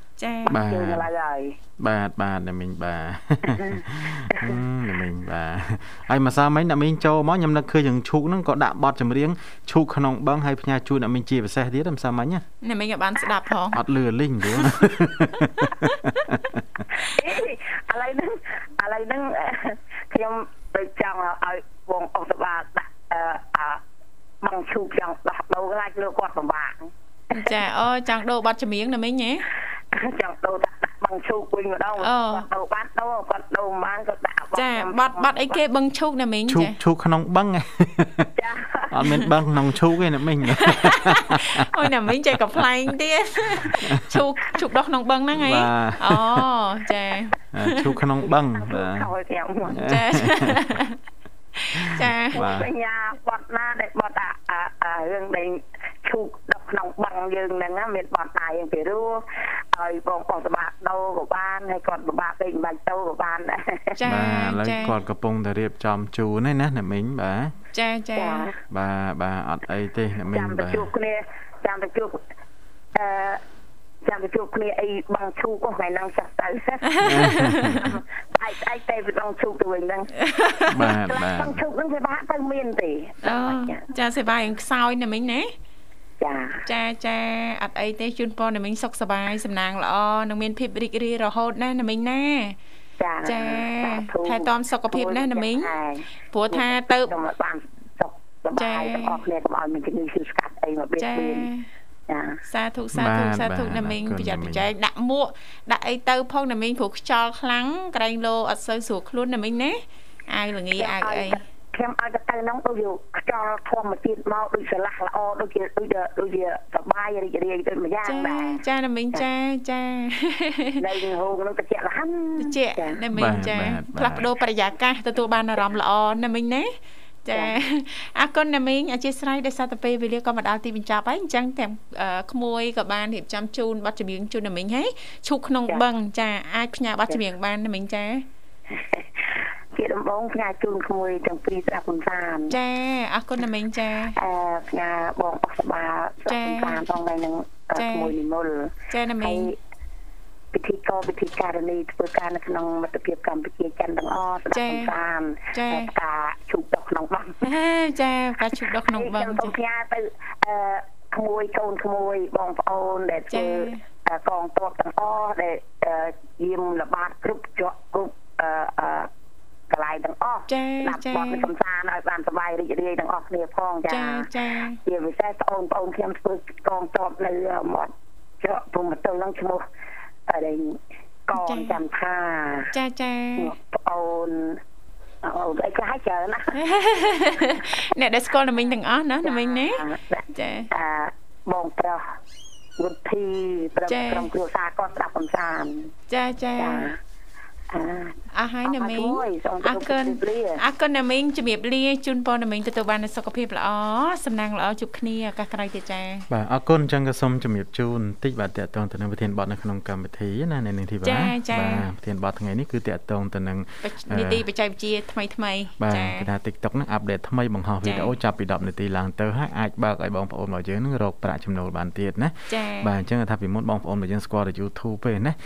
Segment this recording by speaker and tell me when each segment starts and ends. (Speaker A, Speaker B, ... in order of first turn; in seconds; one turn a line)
Speaker A: 0.2-0.6
Speaker B: 0.5-1.1
Speaker C: 0.5-1.6
Speaker B: 1.8-12.4
Speaker C: 3.5-4.6
Speaker A: 12.6-13.8
Speaker B: 13.7-16.8
Speaker A: 15.6-16.3
Speaker C: 16.9-23.8
Speaker C: 24.4-27.6
Speaker A: 27.3-29.5
Speaker C: 29.9-35.6
Speaker A: 32.0-32.5
Speaker A: 34.5-36.8
Speaker B: 36.5-38.3
Speaker C: 38.4-39.0
Speaker B: 38.9-42.1
Speaker A: 39.0-39.3
Speaker A: 40.5-47.9
Speaker B: 43.5-44.2
Speaker B: 45.3-46.5
Speaker B: 47.5-49.1
Speaker C: 48.5-49.9
Speaker B: 49.7-50.6
Speaker A: 49.9-51.0
Speaker A: 51.5-52.4
Speaker B: 51.8-52.7
Speaker C: 52.3-64.0
Speaker A: 64.0-65.0
Speaker B: 64.0-67.5
Speaker A: 67.7-68.5
Speaker C: 68.2-68.6
Speaker B: 68.7-70.9
Speaker C: 70.3-72.2
Speaker C: 72.9-73.4
Speaker C: 74.0-77.0
Speaker A: 76.9-77.8
Speaker B: 77.0-78.0
Speaker C: 77.8-80.1
Speaker A: 80.2-80.9
Speaker B: 80.7-81.6
Speaker C: 80.9-83.9
Speaker A: 83.2-85.5
Speaker C: 86.2-86.6
Speaker A: 86.7-92.5
Speaker C: 93.0-101.5
Speaker A: 93.2-95.7
Speaker A: 96.3-97.1
Speaker A: 98.5-99.2
Speaker A: 101.0-101.7
Speaker C: 102.1-102.4
Speaker A: 102.5-111.4
Speaker B: 102.9-104.7
Speaker C: 110.8-118.6
Speaker A: 118.0-120.8
Speaker C: 120.8-123.0
Speaker A: 122.4-138.2
Speaker B: 123.1-124.2
Speaker C: 127.3-127.6
Speaker C: 138.7-142.6
Speaker A: 142.5-144.2
Speaker C: 144.2-149.6
Speaker A: 146.3-146.8
Speaker A: 147.8-148.1
Speaker A: 148.9-149.5
Speaker C: 150.5-157.4
Speaker A: 154.5-154.9
Speaker A: 155.5-155.9
Speaker A: 157.4-159.6
Speaker C: 158.8-169.1
Speaker A: 163.3-163.8
Speaker C: 169.7-174.3
Speaker A: 170.5-171.5
Speaker A: 173.9-174.8
Speaker C: 174.8-179.6
Speaker C: 180.3-182.7
Speaker A: 181.3-181.8
Speaker A: 182.7-183.5
Speaker C: 183.4-184.6
Speaker C: 185.2-186.5
Speaker A: 186.5-190.7
Speaker C: 189.2-192.0
Speaker C: 192.8-195.9
Speaker A: 193.9-194.3
Speaker A: 196.1-196.9
Speaker C: 196.6-197.0
Speaker C: 197.7-200.6
Speaker A: 198.3-206.3
Speaker B: 206.3-214.4
Speaker A: 211.0-211.9
Speaker A: 213.8-216.3
Speaker B: 215.8-225.4
Speaker A: 217.8-218.1
Speaker A: 222.5-222.9